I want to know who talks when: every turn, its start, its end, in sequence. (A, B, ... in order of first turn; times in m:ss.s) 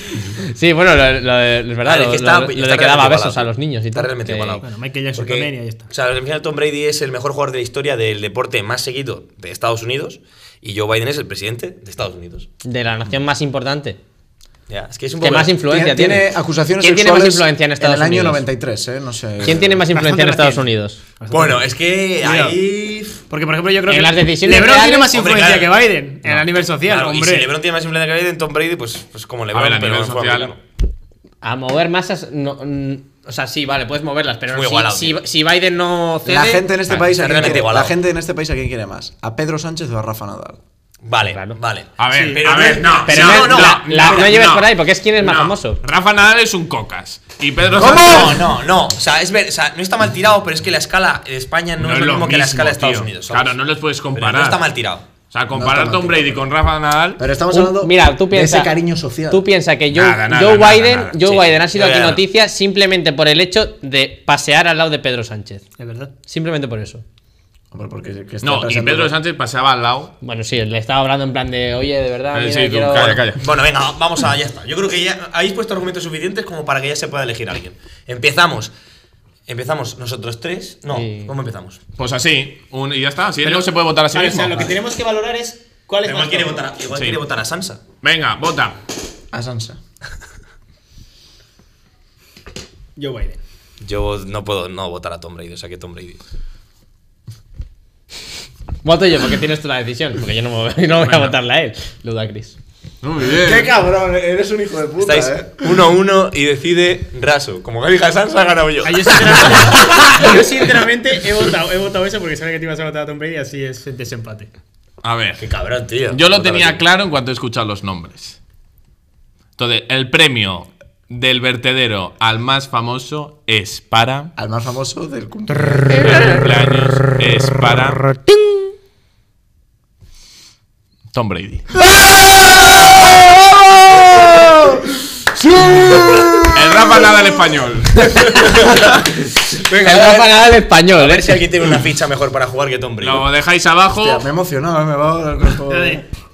0:00.4-0:04.6 A
0:01.8-0:12.5 B
0:04.6-0:05.9 C
0:12.6-0:14.0 A
0:14.7-0:15.5 B
0:15.2-0:18.4 A
0:15.6-0:19.8 D
0:19.4-0:21.0 A
0:19.9-0:20.7 C
0:21.2-0:21.7 C
0:21.3-0:23.2 B
0:22.2-0:22.6 C
0:23.3-0:27.5 C
0:23.9-0:25.1 A
0:25.1-0:25.7 B
0:26.8-0:30.6 B
0:29.5-0:30.5 E
0:31.4-0:36.9 A
0:34.5-0:35.2 B
0:36.2-0:40.6 D
0:36.9-0:37.1 E
0:36.9-0:37.9 B
0:41.0-0:44.4 B
0:41.3-0:41.6 A
0:42.0-0:48.5 E
0:42.1-0:42.5 C
0:43.0-0:45.8 A
0:47.8-0:53.6 B
0:51.8-0:54.6 E
0:54.1-0:55.0 B
0:55.3-0:57.2 E
0:55.5-0:56.4 D
0:57.2-0:59.4 D
0:57.5-0:58.7 A
0:59.3-1:05.6 A
0:59.9-1:01.2 E
1:01.2-1:02.2 B
1:05.8-1:06.1 C
1:06.2-1:07.0 A
1:07.7-1:09.1 D
1:08.4-1:10.1 E
1:10.2-1:13.2 A
1:12.3-1:13.4 E
1:13.4-1:18.7 B
1:19.5-1:21.8 B
1:20.9-1:21.3 A
1:22.0-1:24.6 E
1:23.4-1:26.7 C
1:26.0-1:27.8 B
1:26.9-1:27.2 E
1:28.0-1:28.8 E
1:29.3-1:29.8 D
1:33.0-1:33.4 C
1:33.8-1:36.2 B
1:38.8-1:42.6 A
1:41.0-1:41.4 E
1:43.0-1:43.7 E
1:43.3-1:45.9 D
1:45.0-1:50.2 B
1:48.8-1:54.5 C
1:55.0-1:55.4 E
1:55.4-1:56.8 B
1:56.1-1:58.4 E
1:59.6-2:04.3 E
2:04.4-2:06.2 D
2:05.9-2:08.1 E
2:11.1-2:11.7 E
2:13.9-2:14.4 A
2:16.5-2:18.4 E
2:18.1-2:21.4 A
2:18.3-2:18.8 B
2:19.5-2:20.4 B
2:20.9-2:23.2 B
2:23.0-2:24.2 E
2:23.9-2:26.0 D
2:25.7-2:26.0 C